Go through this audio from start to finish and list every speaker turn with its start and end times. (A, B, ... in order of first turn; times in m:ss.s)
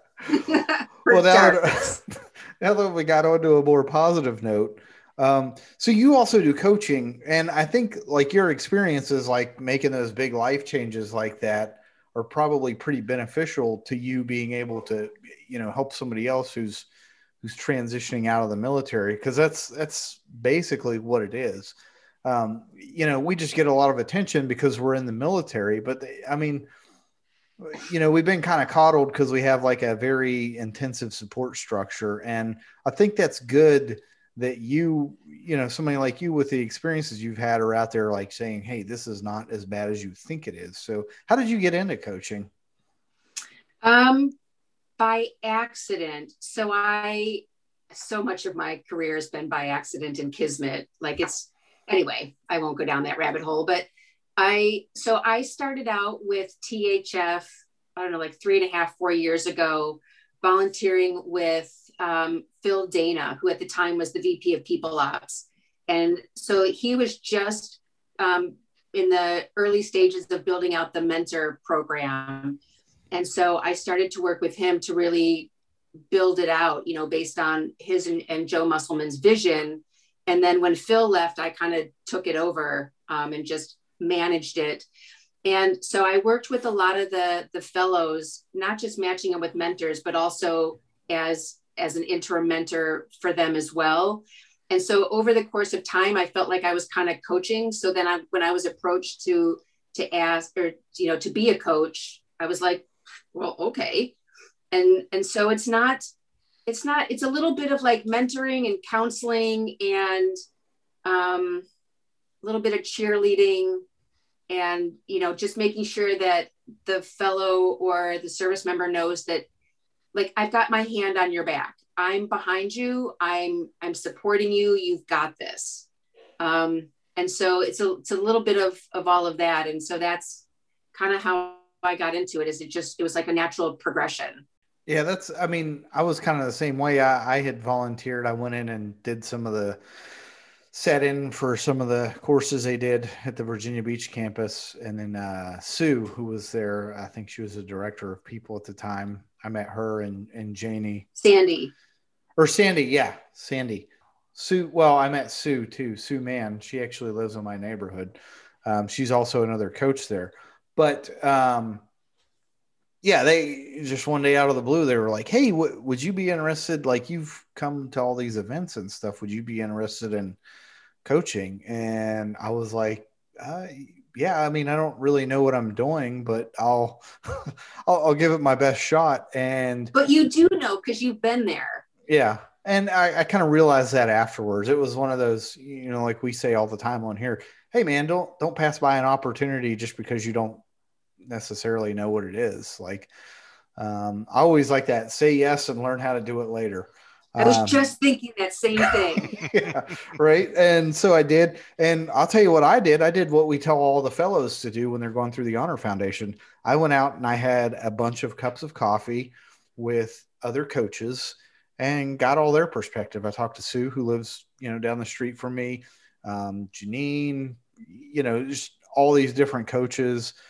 0:00.3-0:01.8 A
0:01.1-0:16.9 B
0:17.4-0:26.7 B
0:27.6-0:42.5 B
0:43.8-0:44.3 A
0:45.0-0:53.8 A
0:54.4-1:12.6 A
1:13.1-1:15.5 A
1:16.1-1:24.9 A
1:25.4-1:44.1 A
1:44.7-1:46.1 A
1:46.7-1:50.4 A
1:51.0-1:51.7 A
1:52.4-1:53.8 A
1:54.5-1:59.4 A
2:00.1-2:05.8 A
2:06.4-2:14.4 A
2:14.9-2:19.8 B
2:20.7-2:31.0 B
2:31.2-2:31.7 A
2:32.4-2:41.8 B
2:43.0-2:50.4 B
2:51.0-2:59.9 B
2:59.9-3:01.8 A
3:02.1-3:10.6 B
3:11.2-3:13.1 B
3:13.8-3:17.9 B
3:17.4-3:19.4 A
3:18.8-3:40.3 B